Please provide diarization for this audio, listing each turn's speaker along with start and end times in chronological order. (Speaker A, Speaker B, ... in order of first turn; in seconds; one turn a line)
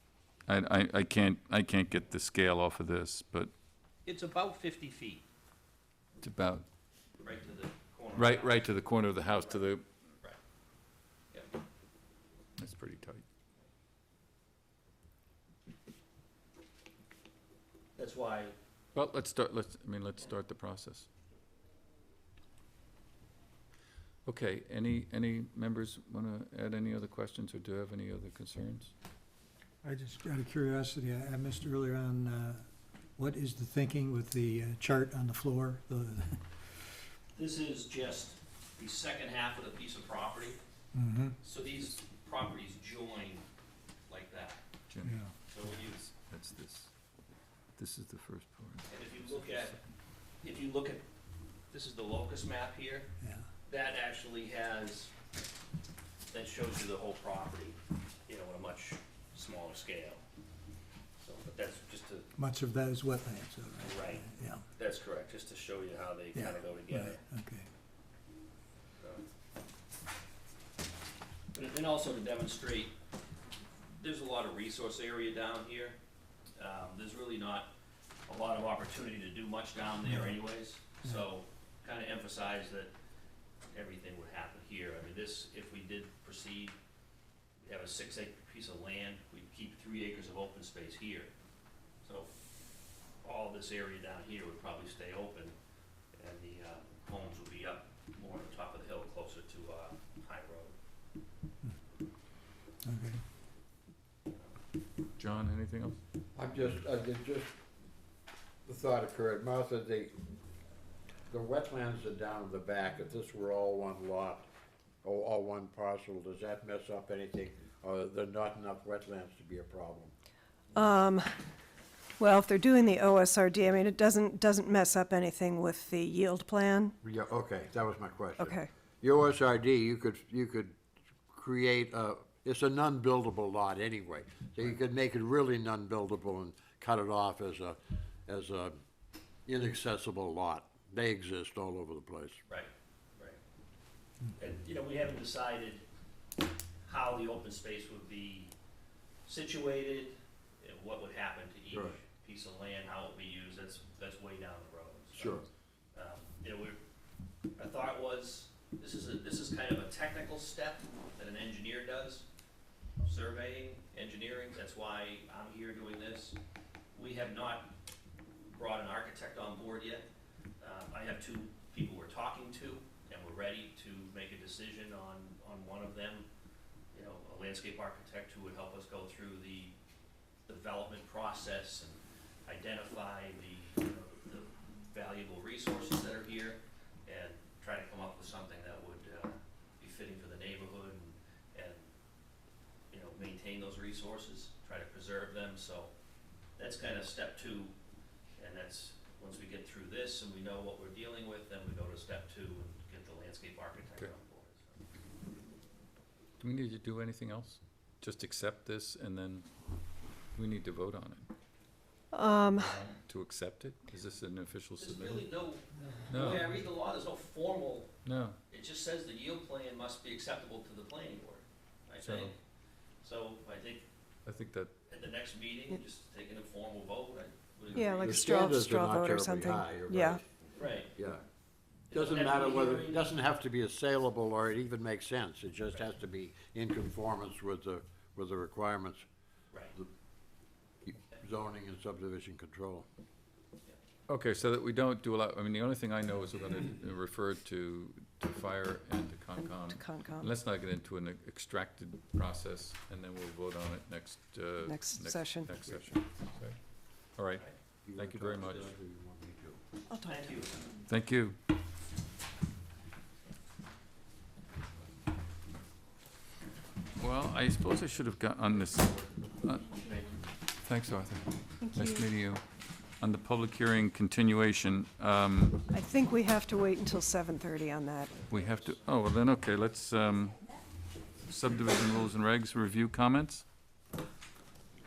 Speaker A: 0.5-3.5
Speaker B: 4.0-5.2
Speaker A: 6.2-6.6
Speaker B: 7.2-8.7
Speaker A: 8.2-9.8
Speaker B: 9.3-9.7
Speaker A: 12.6-13.2
Speaker B: 18.0-18.5
Speaker A: 18.9-21.1
Speaker A: 24.2-28.9
Speaker C: 29.8-36.9
Speaker B: 37.3-40.6
Speaker C: 40.9-41.4
Speaker B: 41.4-43.5
Speaker B: 44.1-44.6
Speaker A: 44.9-46.9
Speaker C: 45.0-45.3
Speaker B: 45.5-46.0
Speaker A: 47.8-49.8
Speaker B: 48.9-49.8
Speaker B: 50.4-51.0
Speaker B: 51.7-53.1
Speaker C: 53.2-53.5
Speaker B: 53.7-55.1
Speaker B: 56.3-60.2
Speaker B: 61.2-62.3
Speaker C: 62.4-64.7
Speaker B: 63.8-67.2
Speaker C: 66.3-67.7
Speaker B: 69.0-69.2
Speaker B: 71.5-73.0
Speaker B: 73.9-76.0
Speaker B: 76.6-77.7
Speaker B: 78.3-82.9
Speaker B: 83.7-86.8
Speaker B: 87.6-91.3
Speaker B: 92.0-92.3
Speaker B: 93.2-95.6
Speaker B: 96.1-100.8
Speaker C: 102.8-103.2
Speaker A: 105.2-106.0
Speaker D: 106.3-107.5
Speaker D: 108.7-110.1
Speaker D: 111.3-114.5
Speaker D: 115.0-120.1
Speaker E: 120.8-121.3
Speaker E: 122.2-126.9
Speaker D: 127.0-130.8
Speaker E: 128.4-128.7
Speaker D: 131.3-138.8
Speaker D: 139.5-142.4
Speaker B: 142.5-143.4
Speaker B: 144.3-145.8
Speaker B: 146.8-148.5
Speaker B: 149.2-155.4
Speaker D: 151.7-152.0
Speaker D: 155.1-155.4
Speaker B: 155.9-156.8
Speaker B: 157.6-162.2
Speaker B: 163.0-166.3
Speaker B: 166.9-167.7
Speaker B: 168.5-170.1
Speaker B: 170.6-176.3
Speaker B: 176.9-179.8
Speaker B: 180.5-191.9
Speaker B: 192.9-195.9
Speaker B: 196.6-197.7
Speaker B: 198.4-204.8
Speaker A: 206.4-209.5
Speaker A: 210.3-211.2
Speaker E: 212.1-212.7
Speaker A: 212.6-215.3
Speaker B: 214.8-217.9
Speaker A: 216.1-216.5
Speaker A: 218.0-218.4
Speaker B: 218.5-222.4
Speaker A: 222.0-222.3
Speaker B: 223.0-223.9
Speaker A: 224.2-224.7
Speaker B: 224.9-228.3
Speaker D: 227.7-230.3
Speaker E: 227.8-230.2
Speaker B: 230.6-230.9
Speaker D: 230.9-231.2
Speaker B: 231.9-233.1
Speaker D: 231.9-239.0
Speaker D: 240.8-242.8
Speaker A: 244.1-256.6
Speaker E: 249.4-250.3
Speaker E: 254.7-255.5
Speaker A: 257.1-258.7
Speaker D: 257.9-259.6
Speaker E: 259.9-260.3
Speaker B: 260.0-260.7
Speaker A: 260.9-261.4
Speaker A: 267.0-275.6
Speaker E: 271.6-272.0
Speaker E: 275.7-278.2
Speaker A: 278.3-280.4
Speaker A: 281.2-283.4